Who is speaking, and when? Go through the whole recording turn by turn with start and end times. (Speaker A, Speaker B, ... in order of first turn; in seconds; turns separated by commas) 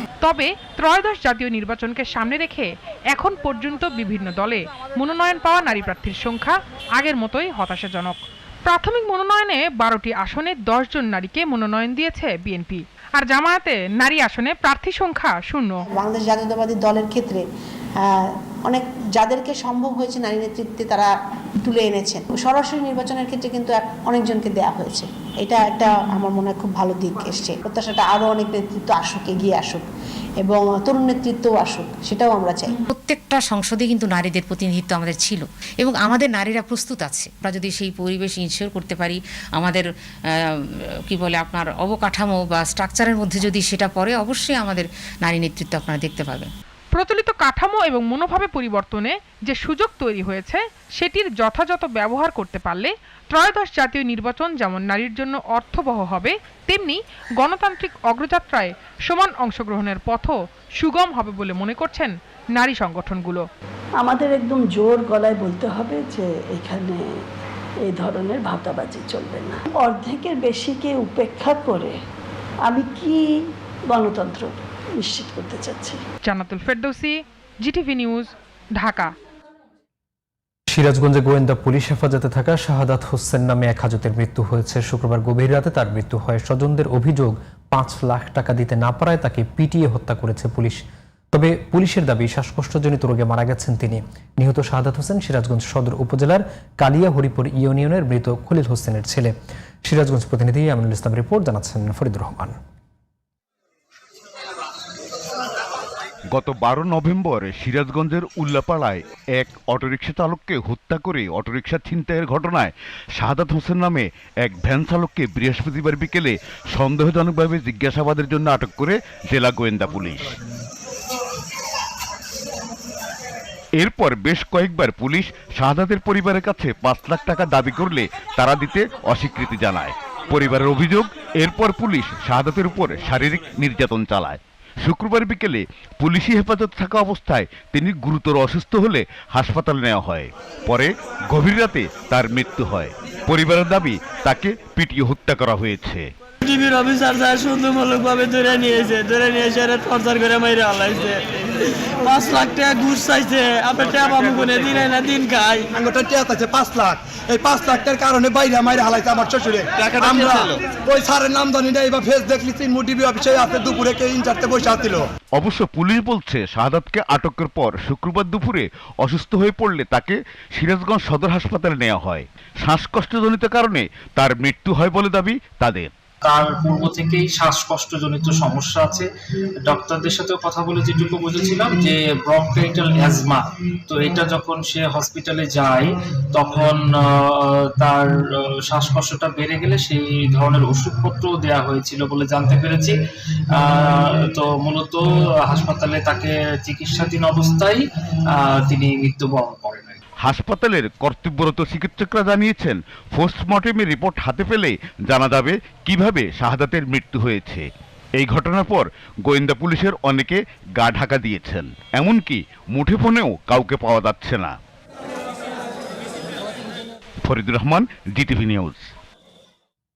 Speaker A: 0.2-15.8, Speaker B: 15.9-17.4, Speaker B: 18.0-29.9, Speaker B: 30.4-32.8, Speaker C: 32.9-46.5, Speaker A: 46.9-63.5, Speaker D: 64.0-67.2, Speaker D: 67.9-72.0, Speaker D: 72.7-73.2, Speaker D: 73.9-76.0, Speaker A: 76.3-79.1, Speaker E: 80.7-102.6, Speaker F: 106.3-120.4, Speaker F: 123.8-146.1, Speaker G: 146.4-151.2, Speaker G: 152.0-155.7, Speaker H: 155.7-165.1, Speaker F: 165.4-175.9, Speaker I: 176.2-179.1, Speaker I: 179.6-193.0, Speaker I: 193.5-200.0, Speaker F: 200.2-214.6, Speaker F: 217.2-218.8